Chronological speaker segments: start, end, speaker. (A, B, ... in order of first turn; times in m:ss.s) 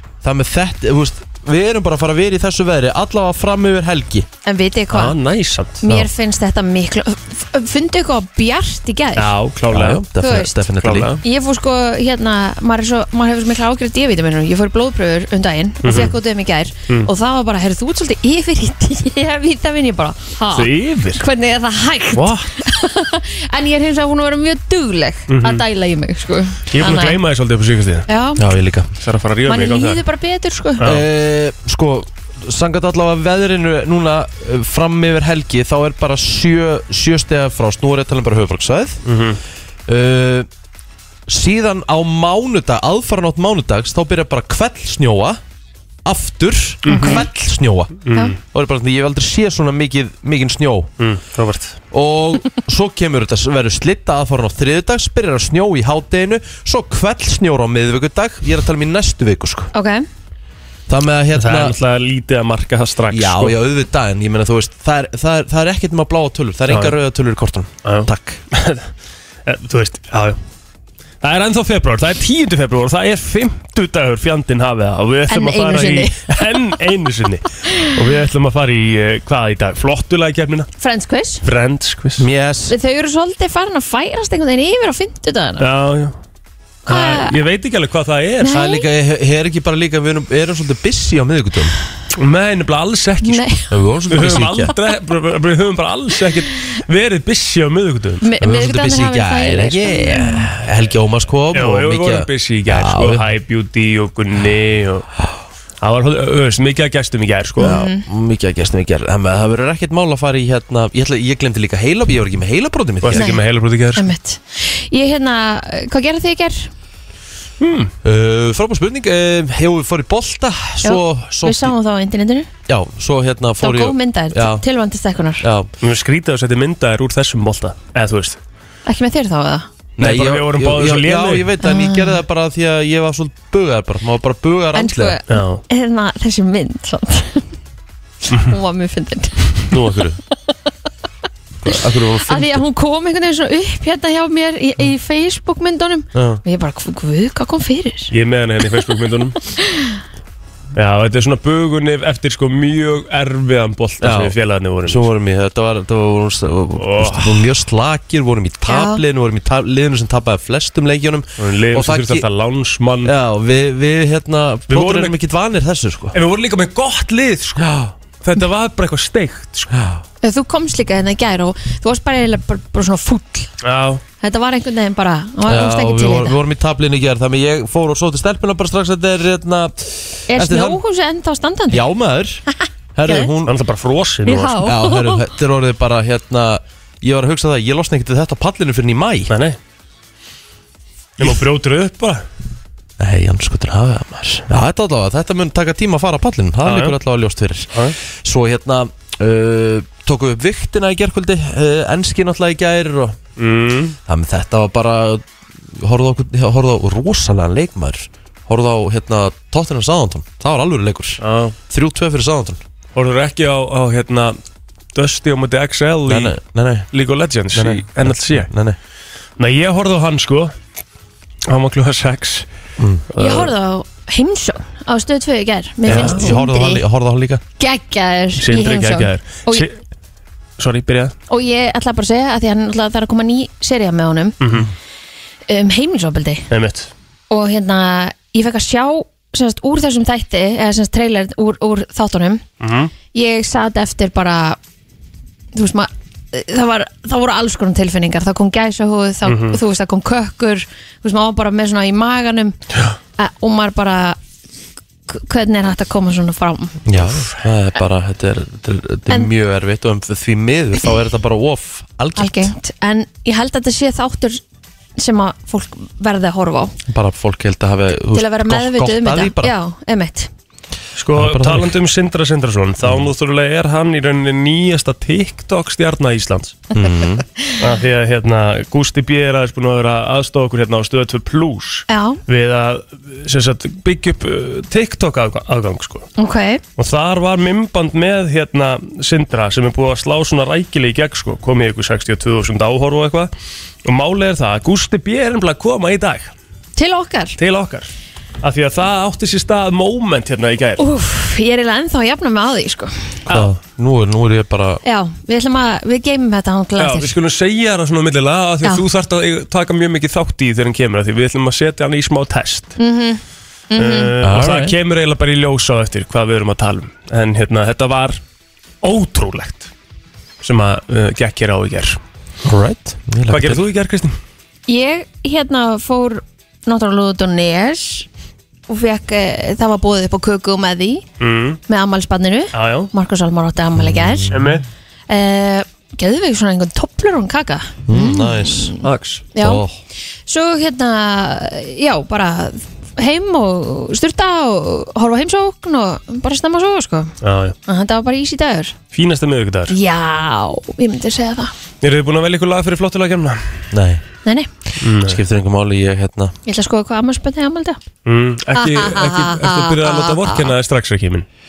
0:00.2-0:04.3 A
0:04.4-0:05.1 B
0:04.9-0:06.1 C
0:05.8-0:09.3 B
0:09.2-0:10.0 C
0:09.7-0:11.1 A
0:10.2-0:10.6 B
0:10.8-0:11.2 C
0:11.2-0:27.2 B
0:15.8-0:16.1 C
0:20.5-0:21.2 C
0:22.1-0:22.5 C
0:25.3-0:25.6 C
0:26.7-0:28.0 C
0:28.1-0:28.4 B
0:28.4-0:28.9 A
0:29.0-0:30.0 C
0:29.5-0:30.8 B
0:30.8-0:31.0 C
0:30.8-0:39.0 A
0:39.0-0:39.4 C
0:39.9-0:40.5 A
0:41.3-0:45.4 A
0:46.0-0:50.9 A
0:46.8-0:47.2 C
0:46.9-0:47.2 B
0:48.0-0:48.3 C
0:51.0-0:51.8 C
0:51.9-0:59.7 A
0:59.7-1:00.0 B
1:00.9-1:01.8 A
1:01.4-1:03.5 C
1:03.1-1:08.4 A
1:06.7-1:07.0 C
1:07.8-1:08.9 C
1:09.4-1:10.4 C
1:11.2-1:20.7 C
1:15.3-1:16.5 B
1:20.8-1:21.4 B
1:21.4-1:22.2 C
1:22.2-1:22.7 A
1:22.7-1:25.6 B
1:25.6-1:26.1 C
1:26.8-1:28.6 C
1:26.9-1:27.3 B
1:28.4-1:28.8 B
1:28.5-1:31.8 A
1:32.2-1:33.5 C
1:33.2-1:33.7 B
1:33.7-1:34.7 A
1:34.1-1:38.2 C
1:38.2-1:40.5 B
1:38.4-1:43.2 A
1:41.5-1:45.0 C
1:45.8-1:47.8 C
1:47.6-1:48.0 B
1:47.6-1:53.3 A
1:53.0-1:54.1 C
1:53.1-1:53.4 B
1:54.0-1:56.7 B
1:57.6-1:57.9 C
1:58.0-2:01.7 A
2:00.8-2:02.5 B
2:02.7-2:04.6 A
2:03.6-2:05.4 B
2:05.4-2:05.7 A
2:05.8-2:08.4 C
2:08.8-2:09.7 B
2:10.0-2:15.2 A
2:10.0-2:11.5 C
2:11.6-2:12.2 B
2:14.7-2:17.4 B
2:15.3-2:15.6 C
2:18.3-2:19.6 B
2:19.7-2:20.1 C
2:19.7-2:20.1 A
2:21.6-2:22.6 A
2:22.2-2:28.1 B
2:26.1-2:26.4 A
2:28.1-2:29.4 C
2:29.6-2:30.0 B
2:30.7-2:35.0 C
2:34.0-2:42.2 A
2:36.8-2:37.5 C
2:38.7-2:39.0 B
2:41.4-2:43.1 C
2:43.0-2:46.2 A
2:44.7-2:45.1 C
2:46.1-2:47.7 C
2:47.6-2:47.9 A
2:48.2-2:49.7 C
2:49.7-2:50.0 A
2:50.2-2:53.5 B
2:53.6-2:54.0 C
2:54.2-2:56.3 B
2:55.5-3:00.8 A
3:00.3-3:01.8 B
3:01.7-3:02.4 A
3:02.9-3:03.5 A
3:03.4-3:04.7 C
3:04.2-3:05.3 B
3:04.6-3:09.3 A
3:09.3-3:09.6 C
3:11.2-3:12.2 C
3:13.0-3:23.2 A
3:16.6-3:17.0 C
3:23.4-3:24.0 C
3:24.0-3:25.2 A
3:25.8-3:32.6 A
3:31.2-3:31.5 C
3:32.9-3:34.4 C
3:34.9-3:36.4 C
3:36.1-3:36.9 A
3:36.9-3:38.5 C
3:37.5-3:38.8 A
3:39.4-3:40.5 C
3:41.5-3:42.4 C
3:42.8-3:43.0 A
3:43.1-3:43.5 C
3:43.2-3:46.8 B
3:45.9-3:46.3 C
3:45.9-3:47.4 A
3:47.6-3:49.6 B
3:48.4-3:49.7 C
3:50.6-3:51.1 C
3:51.3-3:54.4 B
3:54.4-3:54.7 C
3:55.5-3:56.5 B
3:56.5-3:56.9 C
3:57.3-4:02.4 B
4:02.6-4:02.9 C
4:03.1-4:04.6 B
4:05.5-4:12.6 B
4:09.2-4:09.6 C
4:13.2-4:14.2 B
4:15.1-4:16.8 B
4:16.8-4:22.5 A
4:22.2-4:24.4 B
4:25.0-4:26.8 B
4:26.9-4:29.5 A
4:28.1-4:30.3 B
4:31.0-4:36.6 C
4:31.1-4:31.7 A
4:32.8-4:33.1 A
4:36.7-4:37.2 A
4:36.8-4:37.6 B
4:37.6-4:46.1 C
4:41.9-4:42.2 B
4:46.2-4:46.6 B
4:46.8-4:53.3 C
4:53.8-4:56.3 C
4:56.8-4:57.4 B
4:57.4-4:57.9 C
4:58.4-5:00.8 C
5:00.8-5:03.2 B
5:03.3-5:04.8 A
5:03.3-5:03.5 C
5:04.8-5:07.1 B
5:06.8-5:12.7 C
5:12.8-5:13.2 B
5:13.7-5:14.1 B
5:13.8-5:18.2 C
5:14.2-5:14.8 A
5:18.8-5:19.7 C
5:20.4-5:22.0 C
5:22.4-5:23.6 A
5:23.3-5:24.1 C
5:24.7-5:28.1 B
5:28.7-5:31.0 B
5:31.2-5:31.6 C
5:31.7-5:34.3 B
5:32.5-5:32.9 C
5:33.8-5:34.6 A
5:34.3-5:34.6 C
5:35.1-5:38.8 B
5:37.9-5:38.7 A
5:38.8-5:39.2 C
5:39.3-5:39.6 B
5:39.4-5:39.8 A
5:40.3-5:47.1 B
5:47.2-5:47.6 C
5:47.7-5:48.7 B
5:48.9-5:49.7 C
5:49.7-5:51.5 B
5:51.8-5:53.4 C
5:53.7-5:54.0 A
5:54.8-5:55.2 C
5:55.0-5:56.4 A
5:56.4-5:57.8 B
5:58.0-6:01.2 C
5:58.6-6:00.5 B